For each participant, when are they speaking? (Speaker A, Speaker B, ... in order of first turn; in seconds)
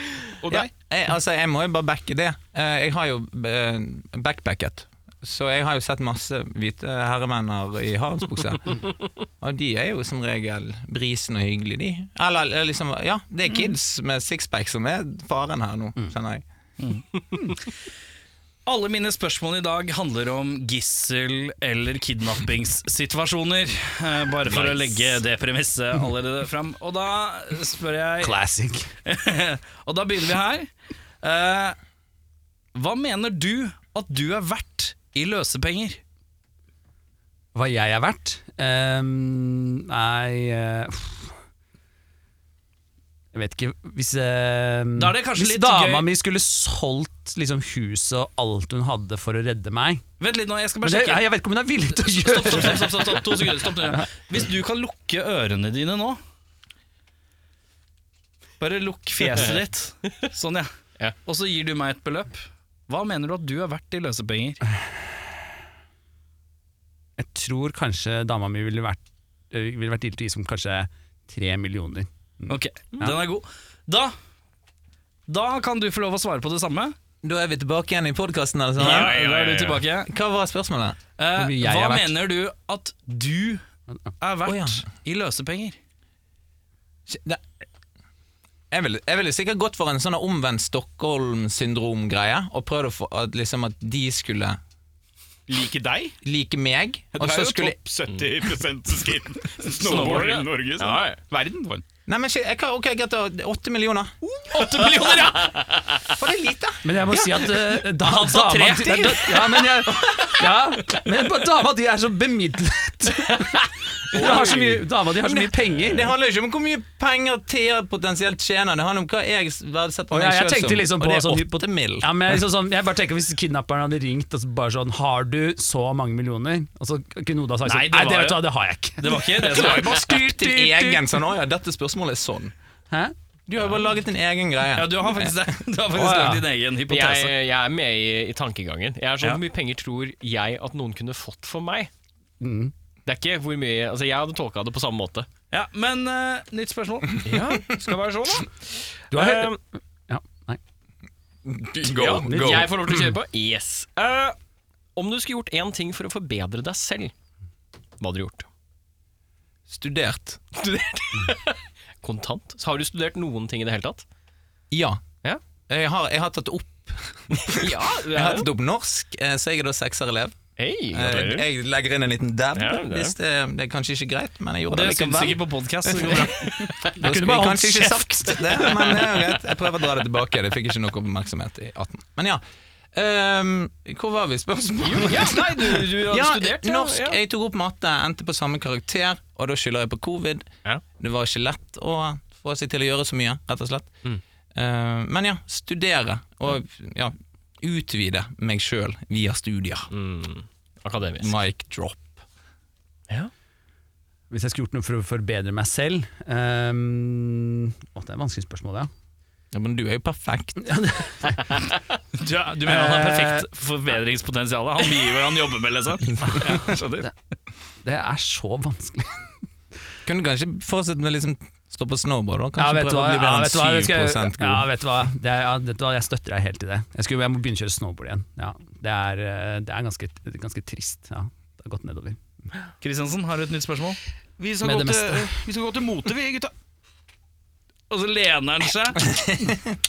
Speaker A: 0.4-0.7, 95.5-96.2, 97.1-101.8, 234.4-236.5
Speaker B: 0.5-16.4, 77.2-79.1, 80.0-81.0, 84.4-84.8, 87.1-87.4, 88.7-94.6, 96.2-97.8, 102.1-104.1, 106.1-107.5, 114.1-122.4, 129.3-132.5, 133.5-135.5, 151.4-152.7, 159.7-160.5, 164.7-165.0, 165.7-170.4, 170.9-182.4, 182.9-193.9, 194.5-199.9, 201.2-202.2, 209.5-210.7, 220.0-224.7
Speaker C: 16.8-17.5, 18.6-28.4, 29.1-30.7, 31.2-31.8, 32.7-36.0, 45.0-46.1, 50.2-51.3, 52.0-56.2, 58.6-60.7, 61.2-64.6, 72.5-74.1, 75.3-77.0, 78.8-80.1, 81.2-83.6, 84.2-85.8, 99.7-100.5, 104.5-105.5, 108.0-109.4, 127.6-128.4, 129.0-130.1, 134.7-137.3, 145.5-148.5, 174.7-176.5, 212.1-217.1, 232.8-234.0, 237.9-239.1
Speaker D: 28.2-28.9, 37.5-41.3, 43.3-50.0, 50.8-54.0, 67.2-73.1, 81.3-82.1, 106.8-116.1, 120.1-131.0, 132.9-133.1, 135.9-136.4, 142.4-142.7, 149.1-149.6, 150.1-150.6, 152.3-153.1, 176.8-179.1, 204.3-208.9, 210.6-211.7, 212.7-213.5, 216.2-217.1, 217.8-219.3, 222.6-232.2, 234.6-235.3
Speaker E: 78.8-79.8, 99.9-101.2, 104.5-106.0, 136.9-141.9, 143.1-145.3, 147.2-147.7, 149.1-149.6, 151.8-154.3, 154.9-157.1, 158.0-158.5, 160.5-164.0, 167.5-168.5, 170.6-171.5, 172.5-173.1, 184.8-187.2, 199.9-201.4